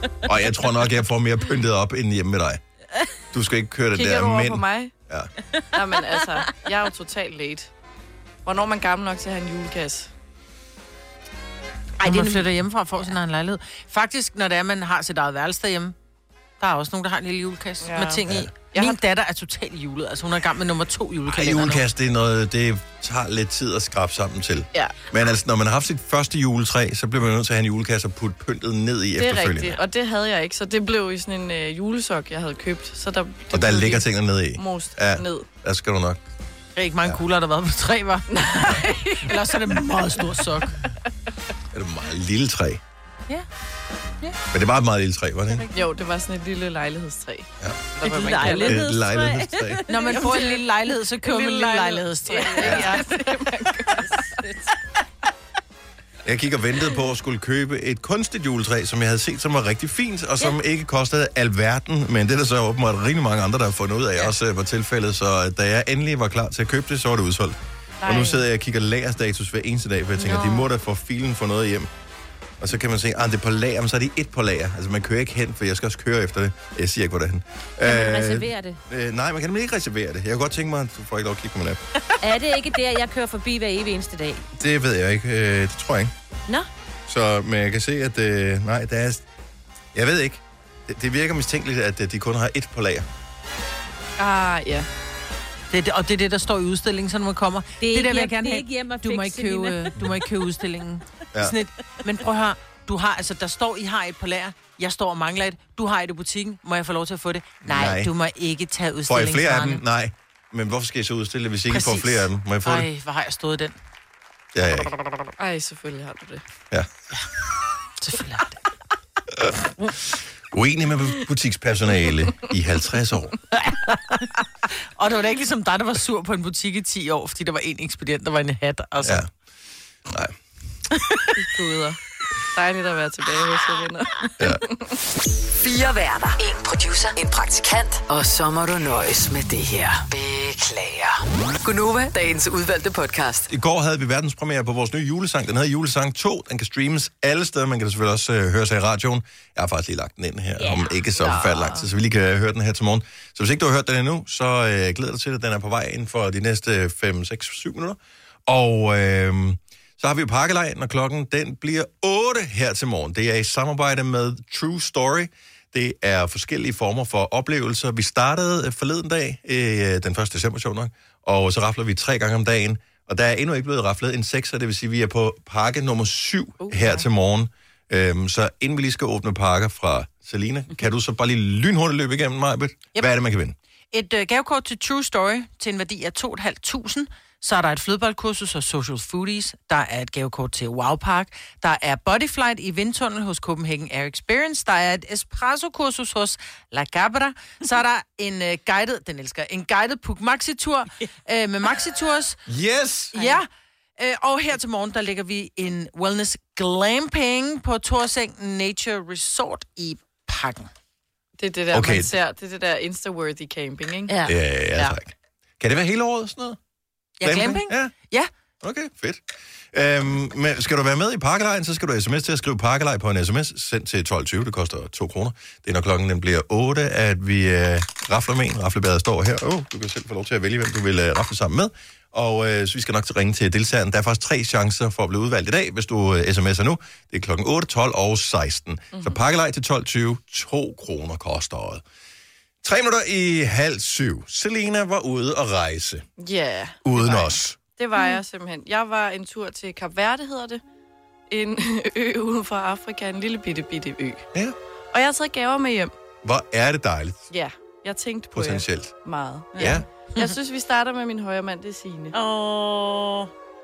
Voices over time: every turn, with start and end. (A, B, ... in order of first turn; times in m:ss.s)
0:00.2-0:02.6 A
0:03.3-0:05.3 A
0:03.9-0:04.9 B
0:05.7-0:07.7 B
0:08.4-0:10.1 B
0:12.0-0:16.0 C
0:12.0-0:12.5 D
0:16.6-0:21.8 C
0:17.8-0:18.2 B
0:21.3-0:29.8 A
0:29.2-0:35.5 B
0:33.5-0:36.2 A
0:36.8-0:40.8 C
0:38.3-0:39.6 B
0:41.7-0:42.8 A
0:44.5-0:45.7 A
0:45.7-0:47.5 B
0:47.6-0:47.9 A
0:48.0-0:48.5 C
0:48.0-0:50.6 D
0:48.1-0:48.8 B
0:48.4-0:49.8 A
0:49.9-0:53.0 C
0:51.3-0:52.0 D
0:52.2-0:54.5 B
0:52.5-0:53.0 D
0:54.0-0:54.6 D
0:56.2-1:11.9 A
1:08.0-1:08.4 B
1:10.2-1:10.7 D
1:12.6-1:21.8 A
1:17.8-1:18.8 D
1:22.2-1:24.4 D
1:24.6-1:26.1 A
1:27.1-1:29.2 A
1:29.9-1:33.1 A
1:34.2-1:34.9 B
1:35.7-1:49.8 C
1:37.8-1:39.9 D
1:47.6-1:48.1 A
1:49.1-1:52.9 A
1:51.7-1:53.8 C
1:54.5-1:54.9 A
1:55.4-1:56.4 B
1:58.0-1:58.6 C
1:59.4-2:03.4 A
2:03.6-2:04.2 C
2:05.0-2:09.2 C
2:09.0-2:09.3 A
2:10.1-2:10.4 A
2:11.4-2:12.0 B
2:12.5-2:15.0 B
2:15.6-2:23.5 E
2:23.5-3:03.6 A
2:30.6-2:31.0 D
2:31.2-2:31.9 B
2:56.6-2:57.0 B
3:03.9-3:22.4 C
3:22.5-3:23.2 A
3:23.1-3:23.5 C
3:24.0-3:30.7 C
3:31.4-3:34.1 B
3:31.7-3:32.1 A
3:34.1-3:34.3 D
3:34.2-3:36.6 A
3:37.2-3:38.3 C
3:37.2-3:37.9 A
3:38.6-4:01.8 A
3:58.9-3:59.2 B
4:02.6-4:06.0 A
4:06.2-4:10.6 B
4:06.8-4:07.6 A
4:11.3-4:14.3 B
4:14.9-4:15.9 B
4:16.2-4:17.3 A
4:17.3-4:22.2 B
4:18.3-4:18.9 A
4:19.6-4:19.8 A
4:22.1-4:23.3 D